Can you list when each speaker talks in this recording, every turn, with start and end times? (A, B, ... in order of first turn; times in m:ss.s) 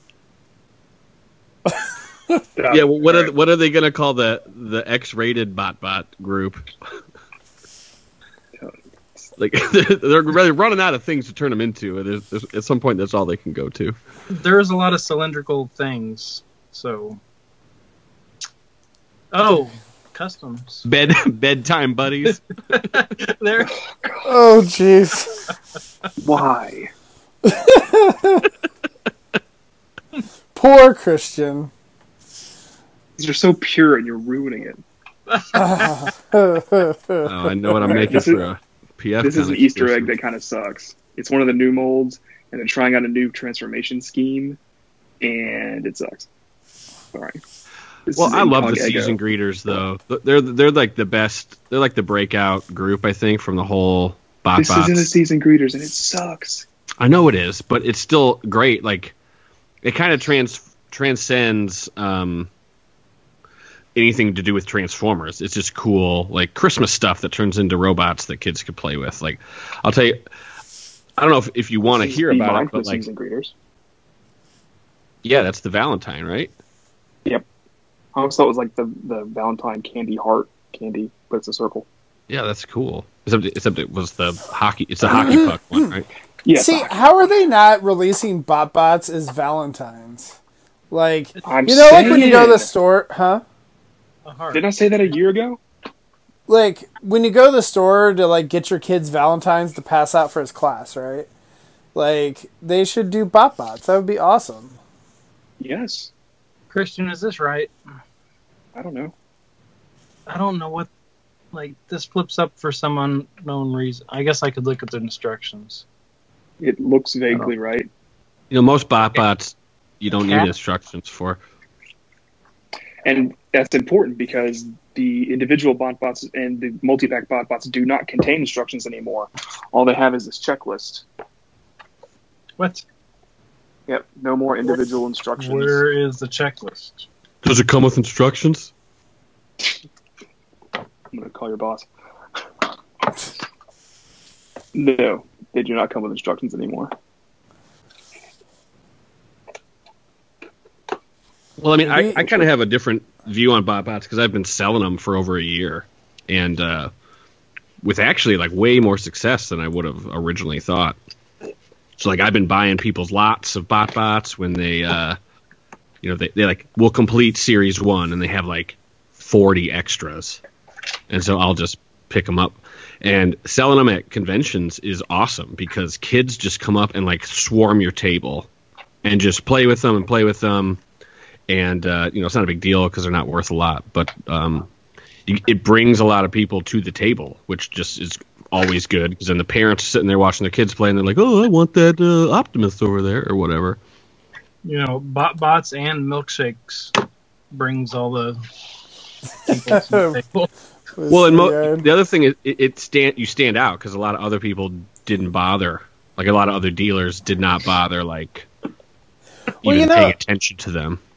0:02.5-0:03.3 A
0:02.7-0:06.6 B
0:08.6-0:09.3 A
0:09.4-0:14.0 B
0:14.3-0:17.2 C
0:19.3-0:20.8 C
0:20.9-0:22.4 B
0:22.7-0:23.7 C
0:24.0-0:24.3 A
0:24.2-0:25.4 D
0:26.2-0:26.9 A
0:27.4-0:28.5 D
0:30.5-0:31.7 D
0:33.2-0:34.8 A
0:35.3-0:36.0 C
0:35.5-0:38.2 D
0:37.2-0:40.1 B
0:37.8-0:38.5 A
0:39.2-0:44.6 A
0:45.2-0:46.3 A
0:47.1-0:47.4 A
0:48.1-0:49.2 A
0:48.1-0:55.1 B
0:54.6-0:56.6 A
0:57.0-0:59.1 B
0:59.8-1:02.5 B
1:03.9-1:10.2 B
1:11.2-1:13.0 B
1:11.8-1:13.5 A
1:15.2-1:16.5 B
1:18.1-1:21.9 A
1:22.3-1:26.1 B
1:25.1-1:25.9 D
1:26.4-1:27.0 A
1:26.5-1:30.4 D
1:30.9-1:33.4 D
1:31.4-1:32.3 C
1:31.4-1:32.7 A
1:34.2-1:35.2 C
1:34.5-1:35.6 A
1:36.5-1:41.3 D
1:41.9-1:44.8 D
1:45.6-1:46.1 A
1:46.7-1:47.7 C
1:48.7-1:49.1 A
1:50.3-1:50.9 C
1:51.5-1:55.8 C
1:56.6-1:57.9 A
1:58.5-2:01.4 B
2:00.2-2:00.5 C
2:03.0-2:11.0 A
2:12.6-2:12.8 C
2:13.9-2:15.8 A
2:15.4-2:17.0 C
2:17.4-2:18.7 B
2:21.1-2:21.8 A
2:24.7-2:26.9 A
2:31.6-2:36.9 B
2:31.9-2:32.5 D
2:37.8-2:41.0 B
2:42.0-2:45.2 B
2:46.0-2:50.4 B
2:51.1-2:58.5 B
2:59.0-3:00.8 B
3:01.5-3:04.7 B
3:05.3-3:13.8 B
3:14.6-3:16.9 C
3:17.5-3:18.4 C
3:19.4-3:20.5 C
3:19.7-3:20.1 D
3:21.0-3:21.9 D
3:21.1-3:28.5 B
3:29.6-3:31.0 B
3:29.6-3:30.1 D